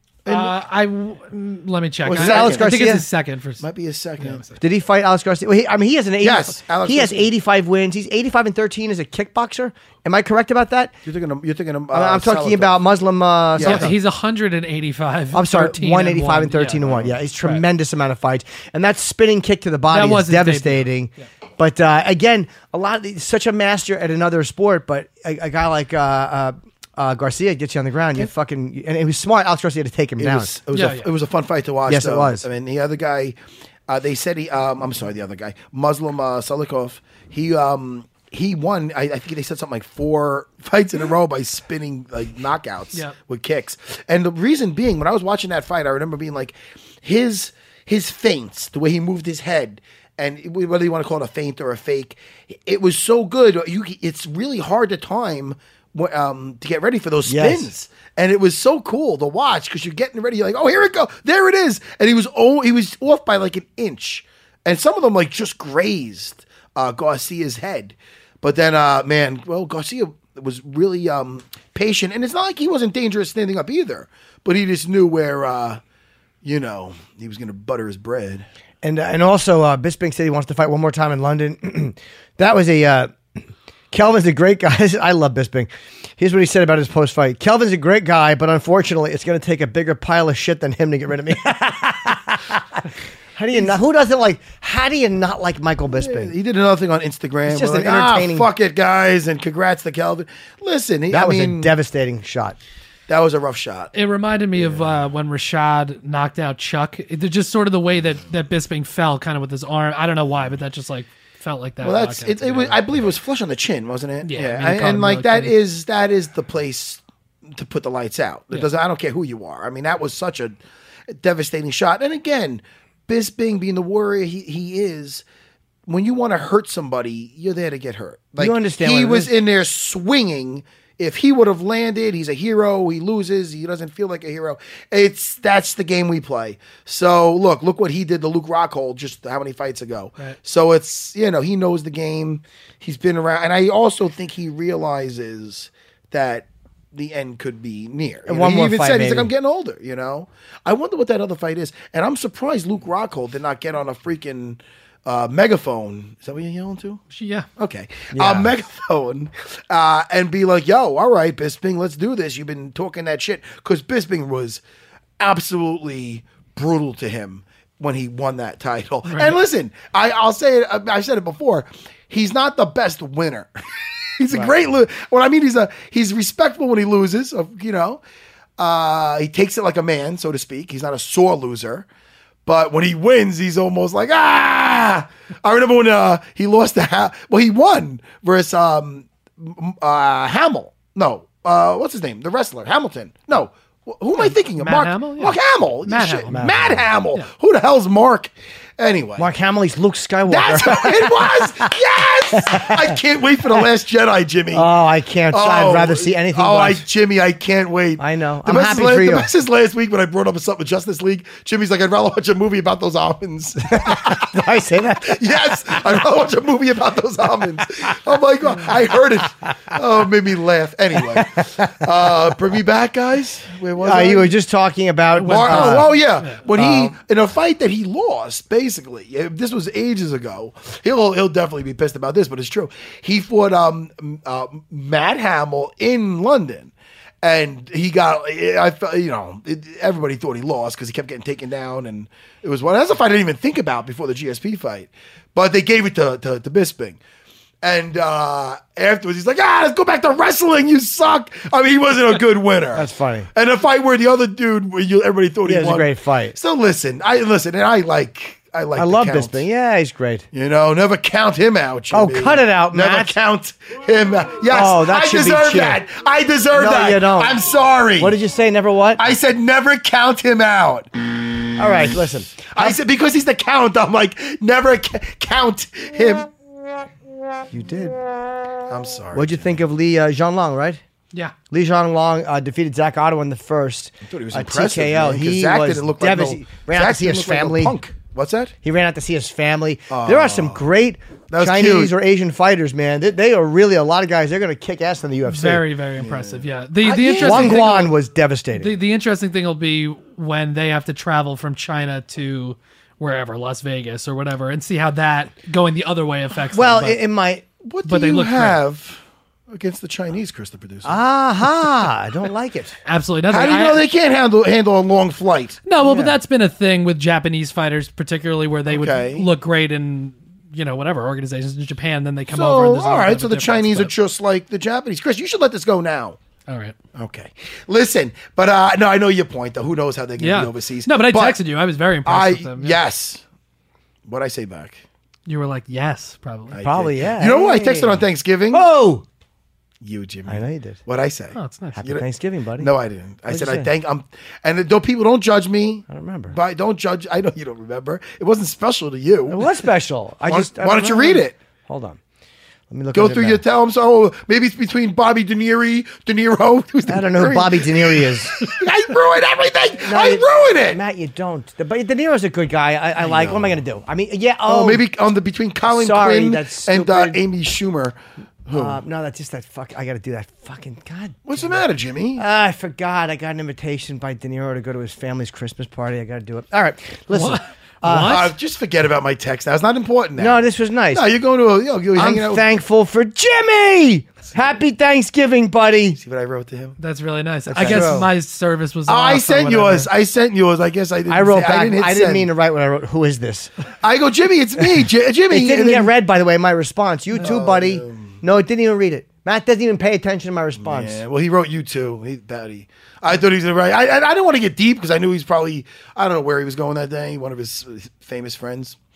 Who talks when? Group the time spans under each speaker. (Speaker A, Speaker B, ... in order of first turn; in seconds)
Speaker A: 0.2-0.5, 2.0-2.9, 3.6-4.4, 6.2-7.3, 11.1-12.8, 13.6-13.9, 16.8-17.1, 30.2-33.4, 33.9-75.8, 76.4-78.5, 95.9-101.7, 103.1-103.9, 111.8-120.6, 121.1-125.2, 125.9-157.0, 157.6-164.6, 165.2-173.5, 174.2-178.0, 178.6-181.9, 182.5-199.3, 200.3-204.7, 205.3-214.3, 215.0-224.3, 225.3-247.0, 247.6-259.4, 260.3-268.2, 269.0-270.9, 272.5-276.3, 278.7-279.6, 284.1-288.6, 289.9-290.6, 291.3-291.9, 296.0-297.9, 307.6-311.0, 313.3-315.6, 318.7-319.3, 322.3-326.2, 327.0-331.4, 332.1-333.2, 334.1-334.8, 336.5-338.6, 339.8-342.1, 342.6-349.5, 350.3-351.4, 352.9-360.8, 363.0-363.6, 364.5-368.8, 371.3-372.2, 378.0-382.4, 385.9-386.8, 387.6-388.1, 388.9-392.3, 393.8-395.9, 397.1-398.2, 400.6-408.8
Speaker B: 0.3-3.6, 4.2-4.6, 13.6-16.9, 19.9-21.3, 30.7-31.1, 104.0-112.8, 114.2-115.5, 157.1-157.5, 169.1-169.4, 194.2-196.5, 225.2-226.4, 295.3-297.9, 298.6-307.0, 307.9-308.6, 312.9-313.8, 315.7-323.9, 326.5-326.8, 330.2-332.8, 335.3-336.6, 341.4-341.9, 377.1-378.3, 386.8-389.9
Speaker C: 2.1-3.0, 4.6-11.0, 11.9-13.9, 15.3-30.5, 31.9-32.5, 57.2-57.7, 78.8-83.2, 83.9-96.3, 97.5-98.5, 101.1-102.6, 128.4-129.3, 148.3-149.3, 158.1-158.5, 196.3-196.9, 199.2-201.7, 202.3-203.0, 204.5-206.8, 208.0-209.3, 213.7-216.0, 221.0-222.1, 223.8-225.9, 226.5-227.0, 252.7-253.3, 255.4-256.4, 258.8-260.3, 261.9-263.2, 264.5-265.8, 266.5-267.4, 268.0-269.1, 271.6-272.8, 277.5-278.1, 279.1-280.8, 281.5-287.8, 288.6-295.7, 297.1-298.8, 306.5-307.5, 310.9-312.8, 315.8-316.2, 336.6-339.1, 340.3-340.8, 341.8-342.7, 343.3-343.7, 345.9-346.4, 349.3-352.0, 352.7-353.4, 356.9-358.4, 359.8-364.8, 365.7-367.2, 368.5-371.6, 372.2-378.3, 380.2-381.1, 381.9-386.0, 387.5-388.1, 391.1-393.5, 395.3-401.0